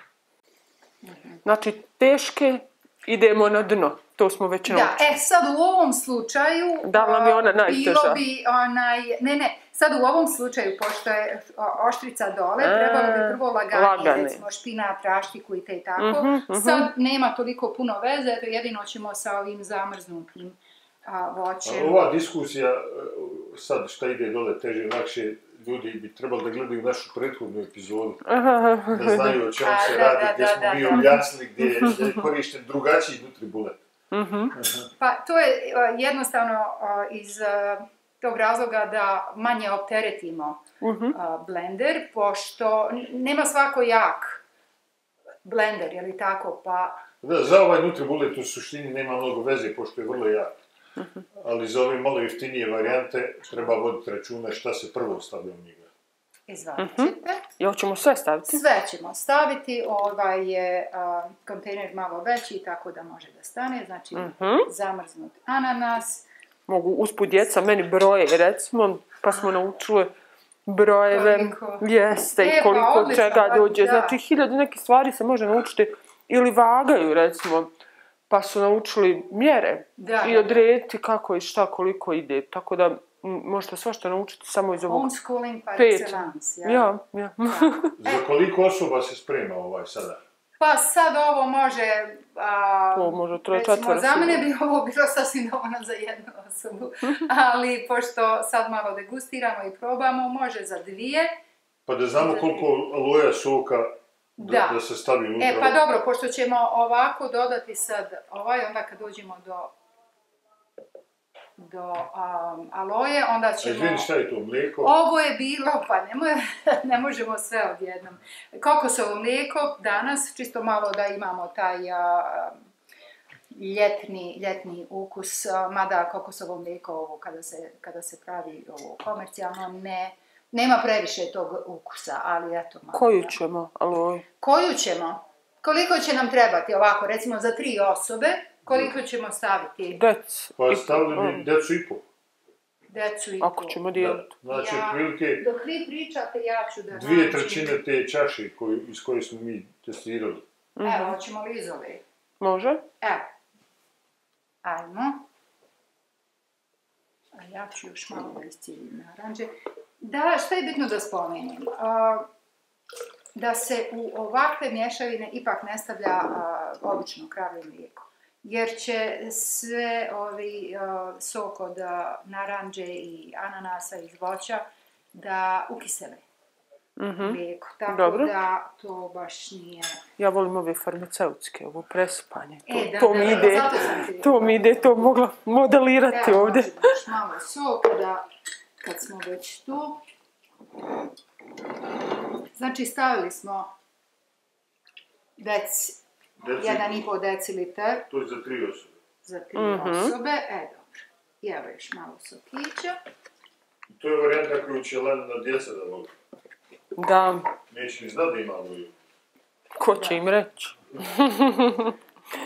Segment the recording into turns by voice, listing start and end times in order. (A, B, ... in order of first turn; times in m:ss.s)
0:01.0-0:01.4 A
0:01.4-0:05.2 B
0:04.7-0:22.1 A
0:06.8-0:08.2 B
0:12.6-0:14.4 B
0:16.0-0:16.9 B
0:21.6-0:28.2 C
0:28.3-0:29.4 B
0:28.9-0:33.8 C
0:29.5-0:31.3 A
0:31.6-0:32.2 B
0:34.1-0:34.6 B
0:34.6-0:34.9 C
0:35.0-0:44.4 A
0:40.8-0:41.2 B
0:45.4-0:47.0 A
0:47.2-0:50.6 C
0:51.4-0:55.9 C
0:56.5-0:57.4 A
0:56.8-0:58.6 B
0:58.5-1:06.3 A
1:04.1-1:04.7 B
1:06.7-1:10.1 B
1:10.7-1:17.7 B
1:11.1-1:11.8 A
1:12.4-1:14.2 A
1:18.3-1:25.1 B
1:20.0-1:20.6 A
1:24.9-1:26.9 A
1:25.8-1:28.0 B
1:27.5-1:28.3 A
1:28.0-1:30.2 C
1:30.6-1:41.3 A
1:33.0-1:34.4 B
1:41.9-1:45.8 C
1:42.2-1:42.7 A
1:44.4-1:44.8 A
1:45.4-1:49.7 A
1:51.6-1:54.1 A
1:53.6-1:54.9 C
1:54.8-2:02.6 A
2:03.5-2:13.4 A
2:12.9-2:14.2 B
2:14.4-2:20.0 A
2:18.7-2:18.9 C
2:19.9-2:21.5 B
2:20.6-2:22.1 C
2:22.9-2:23.8 A
2:23.4-2:24.3 B
2:23.9-2:25.5 C
2:24.5-2:27.8 A
2:26.9-2:30.4 C
2:30.8-2:31.2 B
2:30.8-2:32.0 A
2:32.4-2:32.8 B
2:33.0-2:33.3 A
2:34.6-2:35.3 A
2:37.4-2:42.3 A
2:43.4-2:56.2 A
2:57.0-2:58.3 B
2:57.2-3:00.0 A
3:00.2-3:06.9 B
3:02.7-3:05.2 A
3:06.1-3:08.3 A
3:08.8-3:10.0 A
3:12.6-3:13.7 A
3:15.4-3:16.0 A
3:16.4-3:17.0 C
3:16.6-3:18.1 A
3:18.1-3:18.9 C
3:19.2-3:23.0 A
3:19.6-3:20.2 B
3:23.9-3:26.1 C
3:27.0-3:27.5 B
3:27.7-3:28.9 C
3:29.8-3:32.0 B
3:29.9-3:30.2 A